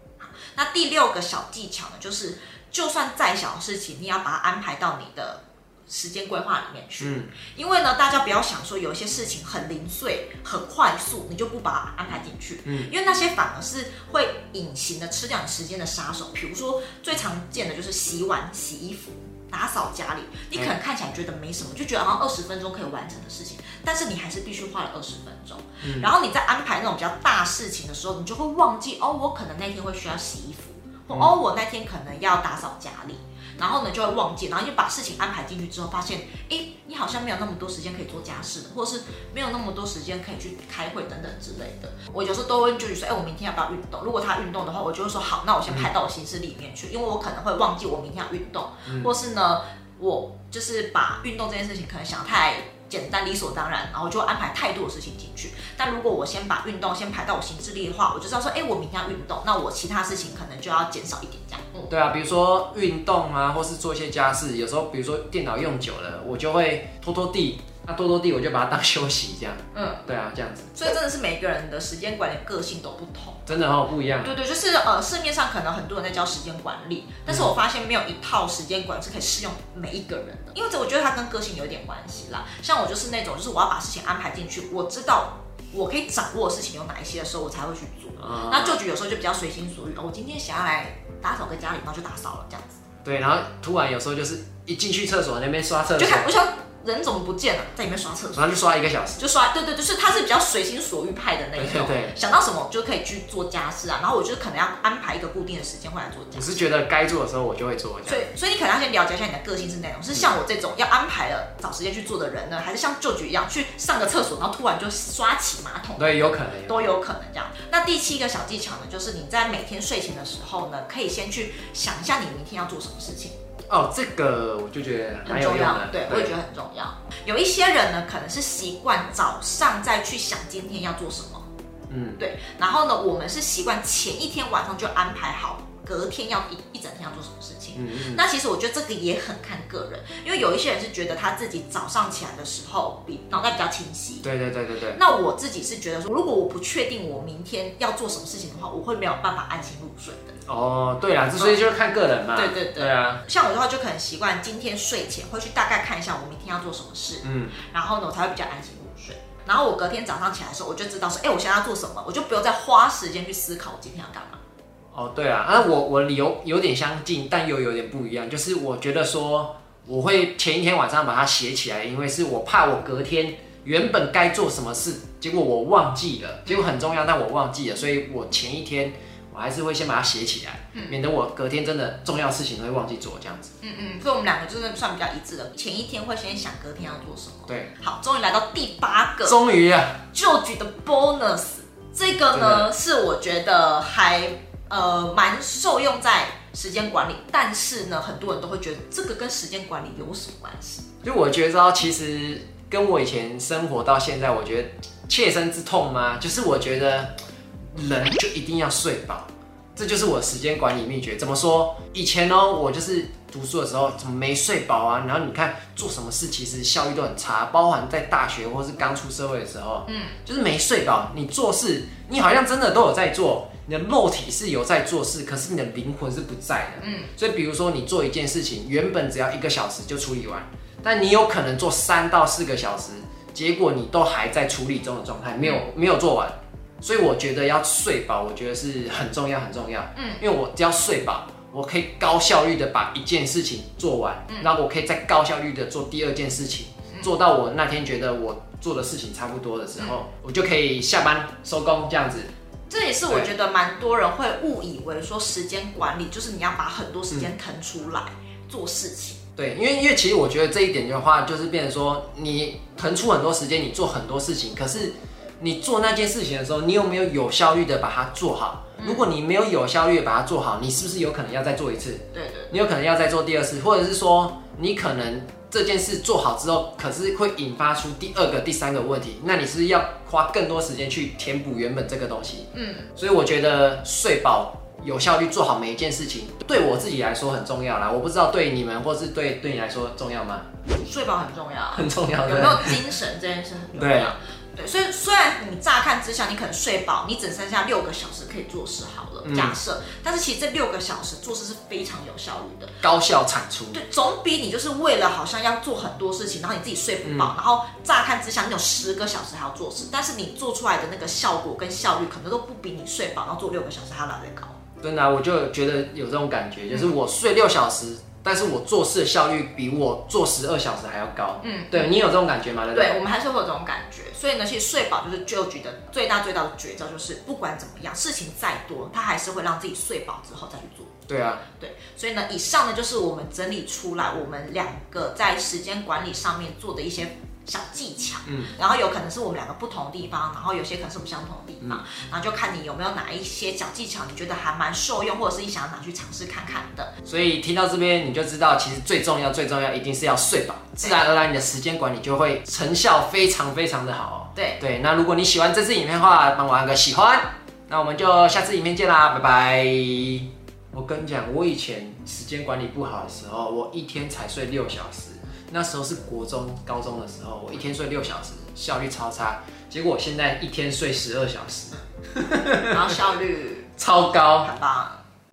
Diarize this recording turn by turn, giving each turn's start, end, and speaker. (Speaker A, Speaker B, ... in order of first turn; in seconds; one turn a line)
Speaker A: 0.2-61.9
Speaker B: 7.0-7.3
Speaker B: 12.7-12.9
Speaker B: 25.8-26.1
Speaker B: 31.1-31.4
Speaker B: 48.9-49.1
Speaker B: 61.9-70.9
Speaker A: 69.7-70.0
Speaker A: 70.8-73.5
Speaker B: 73.5-74.4
Speaker A: 74.2-92.8
Speaker B: 77.3-77.6
Speaker B: 88.2-88.8
Speaker B: 93.0-96.3
Speaker A: 96.0-98.5
Speaker B: 98.3-99.2
Speaker A: 99.2-106.6
Speaker B: 101.6-102.1
Speaker B: 106.3-108.3
Speaker A: 108.1-123.4
Speaker B: 116.0-117.0
Speaker B: 123.7-126.3
Speaker A: 125.2-131.5
Speaker B: 131.9-132.2
Speaker A: 132.2-144.3
Speaker B: 137.8-138.2
Speaker B: 144.2-145.0
Speaker A: 145.0-150.4
Speaker B: 150.5-153.2
Speaker A: 152.3-164.4
Speaker B: 157.2-157.6
Speaker B: 164.9-183.5
Speaker A: 183.6-189.4
Speaker B: 189.2-190.0
Speaker A: 190.1-200.9
Speaker B: 192.3-192.7
Speaker B: 201.0-207.1
Speaker B: 207.7-252.3
Speaker A: 219.9-220.2
Speaker A: 226.8-227.1
Speaker A: 240.0-240.2
Speaker A: 244.3-244.5
Speaker A: 252.7-259.2
Speaker B: 259.4-290.5
Speaker A: 268.8-269.0
Speaker A: 272.1-272.5
Speaker A: 282.5-282.9
Speaker A: 290.7-302.8
Speaker B: 291.7-292.9
Speaker B: 293.7-294.1
Speaker B: 299.2-299.6
Speaker B: 302.8-303.8
Speaker A: 303.7-314.6
Speaker B: 307.0-307.4
Speaker B: 314.8-323.0
Speaker A: 321.4-322.0
Speaker A: 322.7-330.9
Speaker B: 331.1-331.4
Speaker A: 331.6-346.9
Speaker B: 338.3-338.6
Speaker B: 347.1-373.0
Speaker A: 354.4-354.6
Speaker A: 372.7-373.8
Speaker B: 373.8-374.5
Speaker A: 374.4-375.1